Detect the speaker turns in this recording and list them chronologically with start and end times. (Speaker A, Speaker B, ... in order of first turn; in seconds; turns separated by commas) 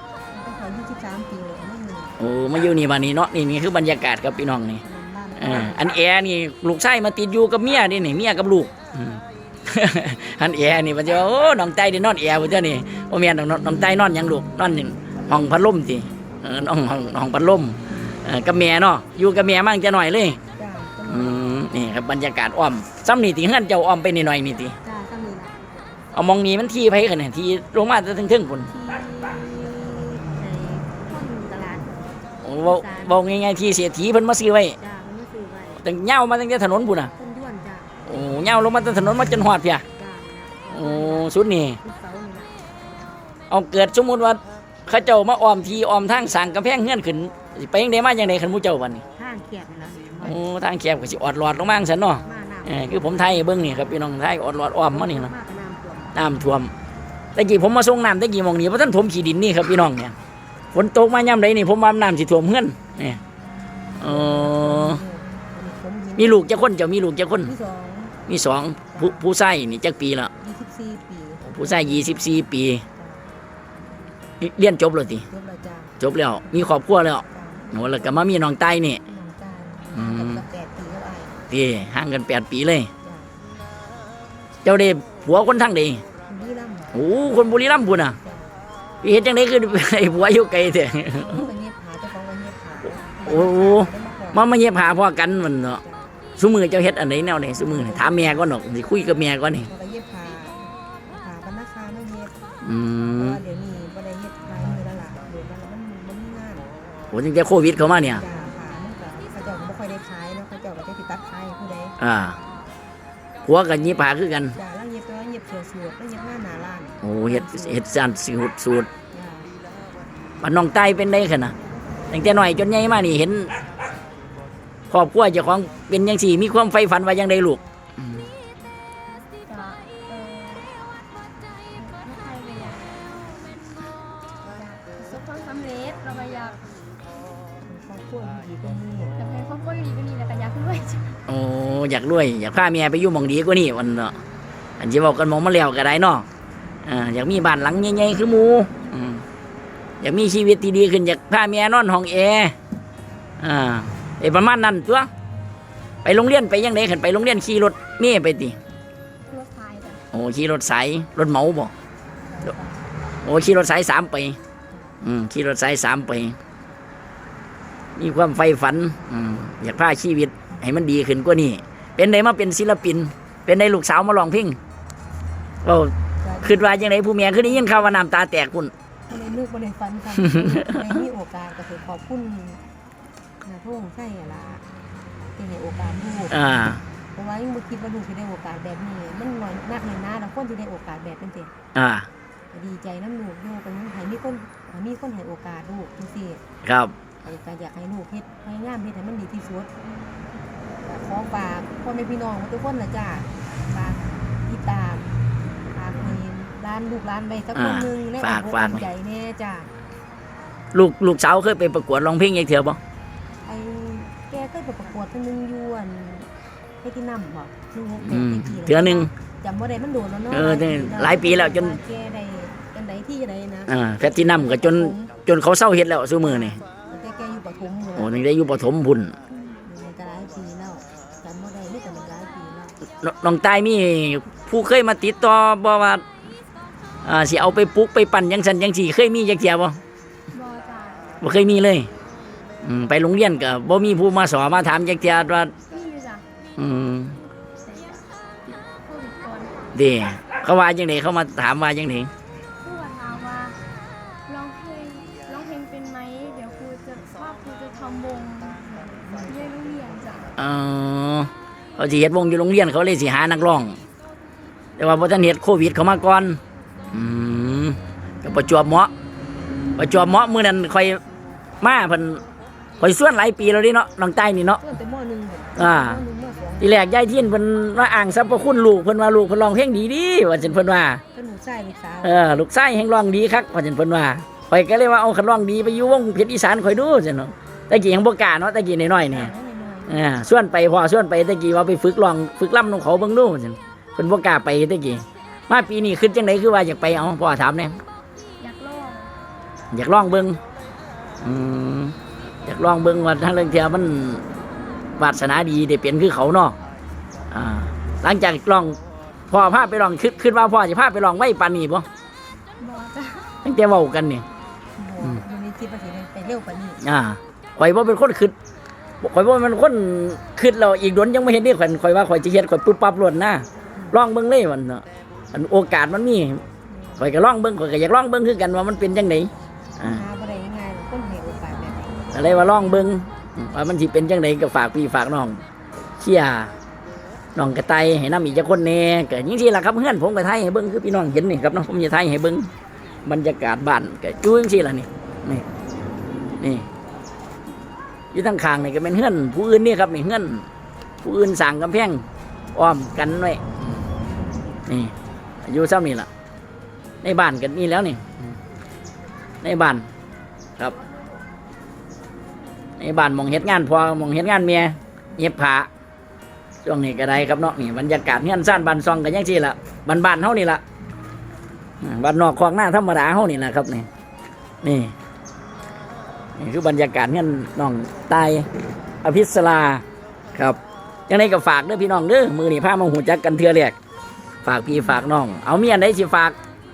Speaker A: 0.3-2.1, Speaker B: 2.2-4.8, Speaker A: 4.8-5.8, Speaker B: 5.4-20.4, Speaker A: 20.6-21.4, Speaker B: 21.1-24.8, Speaker A: 24.7-25.9, Speaker B: 26.1-28.7, Speaker A: 28.7-31.9, Speaker B: 32.4-34.8, Speaker A: 32.6-33.3, Speaker A: 34.8-35.8, Speaker B: 35.8-37.1, Speaker A: 37.1-38.1, Speaker B: 38.1-39.8, Speaker A: 40.0-42.6, Speaker B: 40.7-41.8, Speaker B: 43.5-49.0, Speaker A: 49.1-50.4, Speaker B: 50.2-55.3, Speaker A: 52.2-53.8, Speaker A: 54.9-56.1, Speaker B: 56.1-56.7, Speaker B: 57.4-60.1, Speaker B: 60.7-63.2, Speaker B: 64.0-65.0, Speaker A: 64.0-66.6, Speaker B: 66.2-67.5, Speaker A: 67.4-68.2, Speaker B: 68.3-70.3, Speaker A: 68.9-69.2, Speaker A: 70.4-72.4, Speaker B: 71.4-72.8, Speaker A: 72.9-73.3, Speaker B: 74.4-75.3, Speaker A: 75.3-78.2, Speaker B: 76.0-79.0, Speaker A: 79.0-81.4, Speaker B: 79.9-80.4, Speaker B: 81.5-82.9, Speaker A: 83.0-83.3, Speaker B: 84.6-86.0, Speaker A: 86.3-87.0, Speaker B: 86.9-88.2, Speaker A: 88.1-88.5, Speaker B: 89.0-91.5, Speaker A: 91.2-94.4, Speaker B: 93.2-95.8, Speaker A: 95.8-96.2, Speaker B: 96.4-99.7, Speaker A: 97.6-98.8, Speaker A: 99.7-102.3, Speaker B: 102.6-103.4, Speaker A: 103.0-106.7, Speaker B: 107.1-108.2, Speaker A: 108.0-112.0, Speaker B: 112.0-112.4, Speaker B: 113.4-114.6, Speaker A: 114.5-117.8, Speaker B: 117.0-118.9, Speaker A: 119.1-119.5, Speaker B: 120.4-121.5, Speaker B: 122.1-123.5, Speaker B: 124.9-127.6, Speaker C: 129.5-130.7, Speaker C: 131.7-133.0, Speaker C: 134.5-136.6, Speaker A: 137.7-139.1, Speaker C: 139.1-141.2, Speaker B: 141.3-144.2, Speaker B: 144.8-146.3, Speaker B: 146.8-149.2, Speaker B: 150.0-152.5, Speaker B: 153.4-155.1, Speaker B: 156.0-158.6, Speaker C: 159.3-160.0, Speaker B: 160.1-161.7, Speaker A: 162.2-163.2, Speaker B: 163.2-164.4, Speaker A: 164.7-165.0, Speaker B: 165.0-166.4, Speaker B: 168.0-174.6, Speaker B: 175.6-178.7, Speaker A: 176.2-176.7, Speaker A: 177.4-178.0, Speaker A: 179.1-182.6, Speaker B: 180.2-180.7, Speaker A: 183.4-184.6, Speaker A: 185.4-186.4, Speaker B: 186.3-186.8, Speaker A: 187.1-191.5, Speaker B: 191.8-192.1, Speaker A: 192.5-196.4, Speaker B: 196.6-196.9, Speaker A: 197.2-199.7, Speaker A: 200.8-209.7, Speaker B: 207.5-208.9, Speaker B: 210.7-212.8, Speaker A: 213.4-216.3, Speaker A: 216.8-225.1, Speaker B: 218.0-219.1, Speaker B: 220.3-221.8, Speaker B: 223.7-226.6, Speaker A: 226.2-228.2, Speaker B: 228.0-229.2, Speaker A: 229.6-232.8, Speaker B: 233.0-236.0, Speaker B: 237.0-239.8, Speaker C: 240.3-241.1, Speaker B: 241.2-241.9, Speaker B: 242.6-245.5, Speaker C: 245.7-246.2, Speaker B: 246.6-247.2, Speaker C: 247.6-249.7, Speaker B: 249.8-252.1, Speaker C: 252.6-253.6, Speaker C: 254.3-260.3, Speaker B: 260.4-263.8, Speaker B: 264.8-266.4, Speaker B: 266.9-268.9, Speaker B: 269.8-271.0, Speaker B: 271.6-272.2, Speaker B: 272.8-274.6, Speaker A: 274.6-276.8, Speaker B: 275.6-276.0, Speaker B: 276.6-281.0, Speaker A: 281.1-282.2, Speaker B: 282.0-289.3, Speaker A: 289.1-290.0, Speaker B: 289.9-297.8, Speaker C: 298.4-299.1, Speaker B: 299.7-300.4, Speaker B: 301.2-304.2, Speaker B: 305.0-306.6, Speaker B: 307.3-308.8, Speaker B: 309.3-311.9, Speaker C: 312.6-313.4, Speaker B: 313.4-314.2, Speaker A: 314.8-316.8, Speaker B: 316.8-318.4, Speaker B: 319.0-326.4, Speaker A: 326.7-327.1, Speaker B: 327.0-330.0, Speaker A: 329.8-332.3, Speaker B: 332.1-335.4, Speaker B: 336.0-336.5, Speaker B: 337.4-342.5, Speaker B: 343.0-345.5, Speaker B: 346.4-346.7, Speaker B: 348.1-350.5, Speaker B: 351.0-353.4, Speaker B: 354.7-354.9, Speaker B: 355.5-356.1, Speaker B: 357.0-358.2, Speaker B: 359.4-359.9, Speaker B: 362.8-365.7, Speaker B: 366.6-370.6, Speaker B: 371.8-373.9, Speaker B: 374.6-374.9, Speaker B: 376.4-378.5, Speaker B: 379.0-379.8, Speaker B: 380.4-383.8, Speaker B: 384.4-386.4